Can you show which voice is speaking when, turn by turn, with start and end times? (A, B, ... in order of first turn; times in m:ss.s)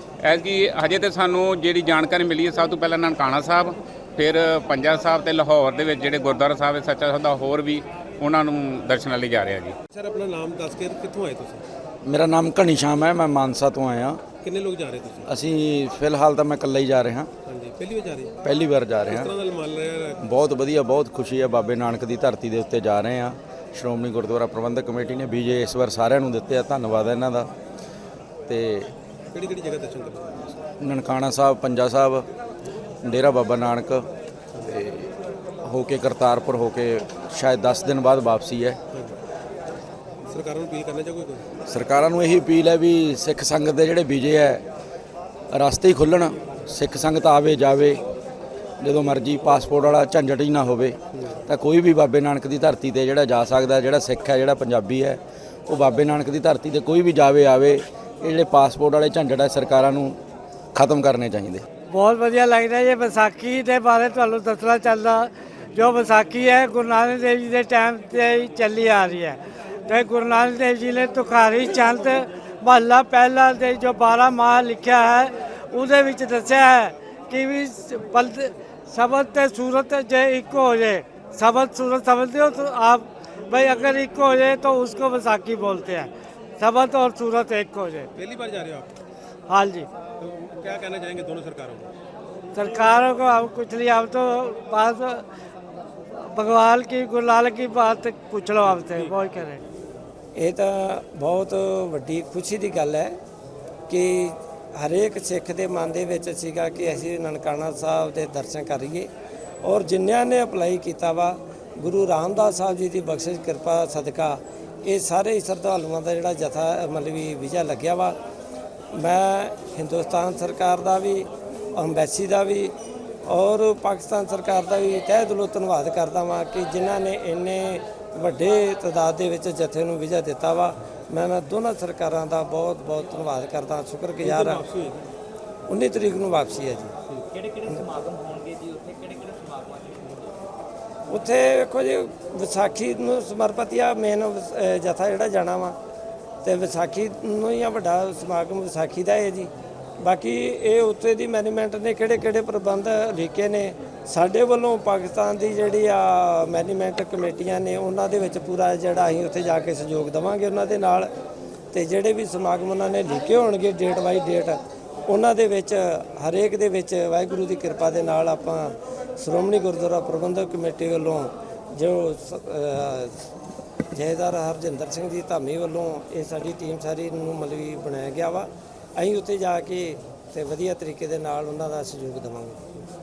0:00.2-0:09.8 A
0:09.9-0:11.6 B
0:12.0-0:14.2 C
0:14.4-0:15.3 B
0:15.3-0:17.3 C
0:17.5-0:18.3 B
0:18.4-0:19.3 C
0:19.1-0:20.2 B
0:20.2-0:27.5 C
0:28.5-0:28.9 C
0:29.3-0:30.3 B
0:30.8-0:32.3 C
0:33.0-0:34.1 C
0:34.6-0:35.1 C
0:35.6-0:38.8 C
0:40.3-0:41.4 B
0:41.7-0:44.6 C
0:45.5-0:48.0 C
0:48.8-1:00.2 C
1:00.7-1:01.6 C
1:01.9-1:28.1 D
1:28.2-1:28.9 B
1:29.5-1:29.9 D
1:30.2-1:31.9 B
1:32.5-1:35.2 D
1:36.3-1:39.6 D
1:38.6-1:39.2 B
1:40.4-1:43.2 E
1:43.9-1:49.1 E
1:49.6-1:58.2 E
1:58.9-2:14.6 E
2:14.2-2:15.1 B
2:15.7-2:16.9 E
2:21.1-2:25.8 E
2:26.4-2:41.1 E
2:41.7-2:53.2 E
2:53.9-3:02.6 E